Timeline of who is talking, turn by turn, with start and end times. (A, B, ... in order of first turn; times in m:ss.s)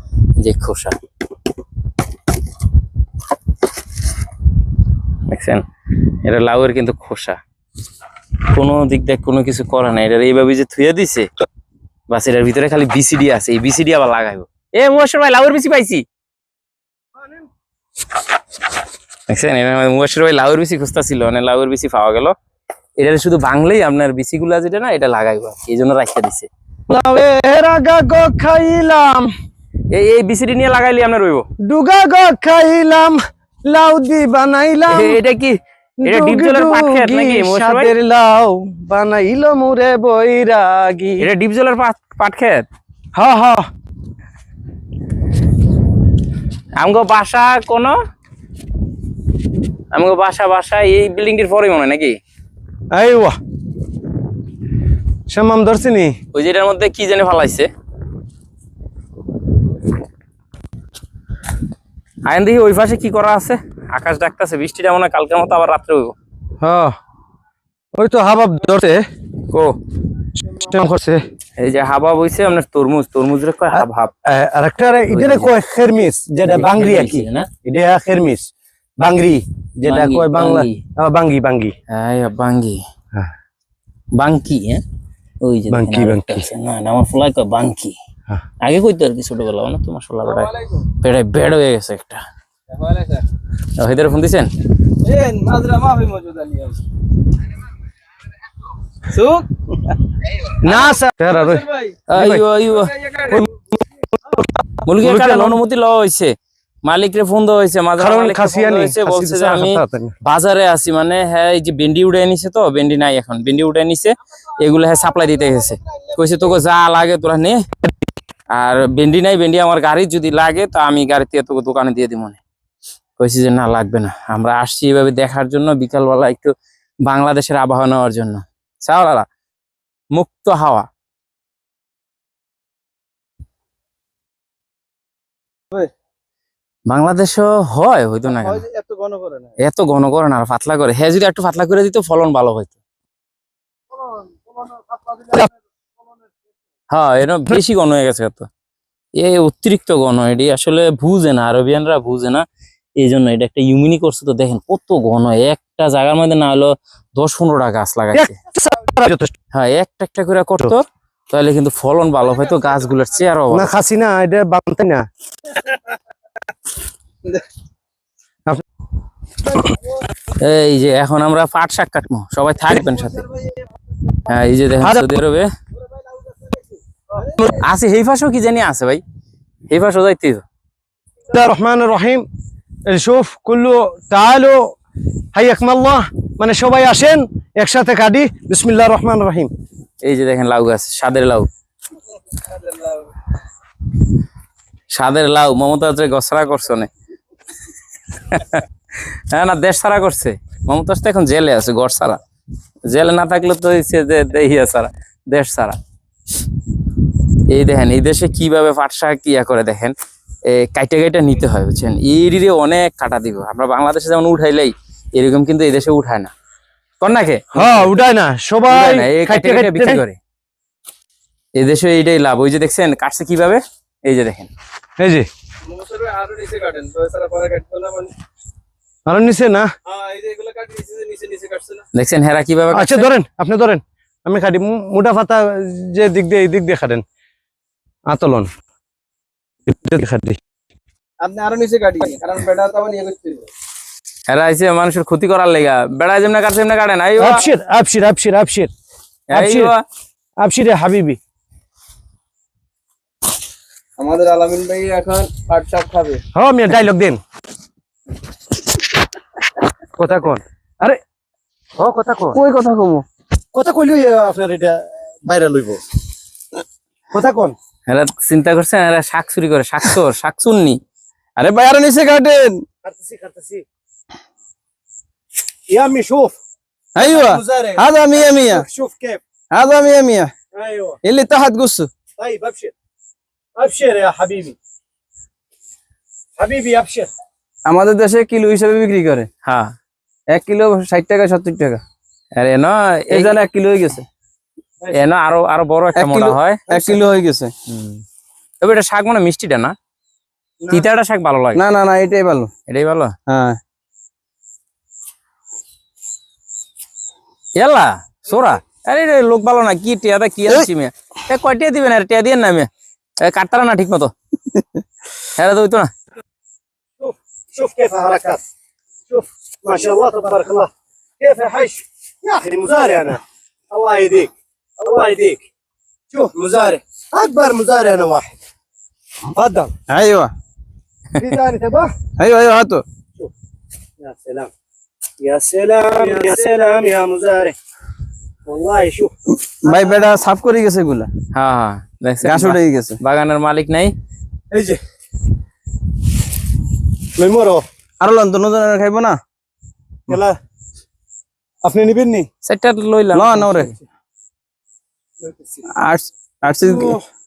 0:00.4-0:01.0 A
0:05.3-0:05.6 A
0:06.2-0:07.4 A
0:08.5-0:11.3 A
0:12.1-0:16.0 A
0:17.2-0:17.4 B
0:19.3-0:22.3 A
0:23.0-0:26.5 A
0:26.9-0:29.3 B
0:29.9-0:31.5 A
0:31.6-0:35.2 B
0:34.9-0:37.9 A
0:36.0-0:41.3 B
0:41.2-0:42.7 A
0:43.1-0:43.6 B
0:46.8-0:48.0 A
0:49.9-0:52.2 A
0:52.9-0:53.4 B
0:55.3-0:56.2 B
0:56.3-0:57.7 A
1:02.3-1:06.2 A
1:06.6-1:06.9 B
1:08.0-1:09.0 B
1:09.5-1:09.8 A
1:10.4-1:11.2 B
1:11.6-1:14.1 A
1:13.7-1:21.7 B
1:15.1-1:15.5 A
1:16.5-1:17.5 A
1:19.8-1:20.8 A
1:21.9-1:22.8 A
1:24.2-1:24.8 A
1:25.4-1:28.0 A
1:25.7-1:26.4 B
1:28.6-1:32.2 A
1:30.3-1:30.8 C
1:32.7-1:33.2 C
1:33.8-1:34.5 A
1:35.0-1:36.8 C
1:39.1-1:39.8 C
1:40.6-1:42.5 B
1:41.3-1:42.0 C
1:42.1-1:42.9 A
1:42.8-1:43.5 C
1:43.3-1:45.6 B
1:44.8-1:46.3 A
1:46.8-1:57.6 A
1:48.0-1:50.1 B
1:58.5-2:02.4 A
2:03.2-2:06.5 A
2:07.1-2:09.3 A
2:10.2-2:10.9 A
2:16.9-2:18.6 A
2:18.3-2:19.5 C
2:19.6-2:22.8 A
2:24.0-2:25.5 B
2:26.9-2:28.5 A
2:29.2-2:32.4 A
2:33.0-2:38.4 A
2:38.1-2:39.3 B
2:39.5-2:43.7 A
2:43.5-2:45.1 B
2:50.4-2:53.3 A
2:54.3-2:55.5 A
2:54.8-2:55.1 B
2:57.4-2:59.0 A
2:59.7-3:00.4 A
3:01.3-3:02.2 B
3:02.9-3:04.8 B
3:05.3-3:09.5 B
3:10.0-3:11.5 A
3:14.9-3:16.9 A
3:18.3-3:18.6 A
3:19.3-3:22.2 A
3:22.9-3:25.8 A
3:27.5-3:29.9 A
3:30.5-3:36.3 A
3:37.0-3:38.0 A
3:37.5-3:40.0 B
3:38.7-3:40.2 A
3:41.6-3:44.5 A
3:45.0-3:45.3 B
3:45.7-3:48.1 C
3:49.1-3:49.7 B
3:49.9-3:51.8 C
3:51.9-3:53.1 A
3:52.7-3:57.0 B
3:58.1-3:58.5 B
3:59.7-4:00.4 B
4:01.2-4:03.5 C
4:04.3-4:07.4 A
4:07.2-4:08.7 B
4:09.3-4:09.8 A
4:09.3-4:09.7 B
4:10.4-4:11.2 B
4:14.0-4:16.2 C
4:16.3-4:17.2 B
4:20.0-4:21.0 B
4:21.8-4:22.4 B
4:22.3-4:23.0 C
4:23.5-4:25.8 B
4:27.1-4:27.6 B
4:27.9-4:30.8 A
4:31.4-4:32.6 C
4:32.8-4:33.6 B
4:35.7-4:36.3 B
4:37.0-4:38.6 C
4:37.0-4:39.2 B
4:39.5-4:40.3 C
4:40.6-4:41.0 B
4:41.0-4:41.9 C
4:42.2-4:42.7 B
4:43.6-4:44.6 B
4:46.4-4:47.1 B
4:47.7-4:49.3 C
4:49.4-4:49.8 A
4:50.3-4:51.8 C
4:52.4-4:53.4 A
4:53.1-4:54.1 C
4:54.9-4:56.6 A
4:56.0-4:57.5 C
4:56.7-4:57.0 B
4:57.7-4:58.0 A
4:58.6-4:59.8 A
5:00.7-5:01.6 A
5:01.6-5:02.5 C
5:02.7-5:03.1 A
5:03.3-5:03.6 C
5:07.6-5:12.7 A
5:13.2-5:14.1 A
5:15.4-5:15.9 A
5:17.0-5:18.4 B
5:19.1-5:20.7 B
5:21.2-5:25.4 B
5:26.1-5:28.3 B
5:29.3-5:29.7 B
5:29.9-5:30.3 C
5:31.2-5:31.9 B
5:32.2-5:32.8 C
5:34.0-5:34.5 B
5:35.2-5:37.6 B
5:38.5-5:39.1 B
5:39.5-5:41.1 C
5:41.3-5:43.9 A
5:42.2-5:43.0 C
5:44.5-5:44.8 B
5:47.2-5:47.6 B
5:48.0-5:49.2 C
5:50.1-5:50.4 B
5:51.6-5:52.3 B
5:52.4-5:53.7 A
5:53.1-5:53.7 C
5:55.3-5:55.6 B
5:55.8-5:57.0 C
5:56.6-5:57.0 B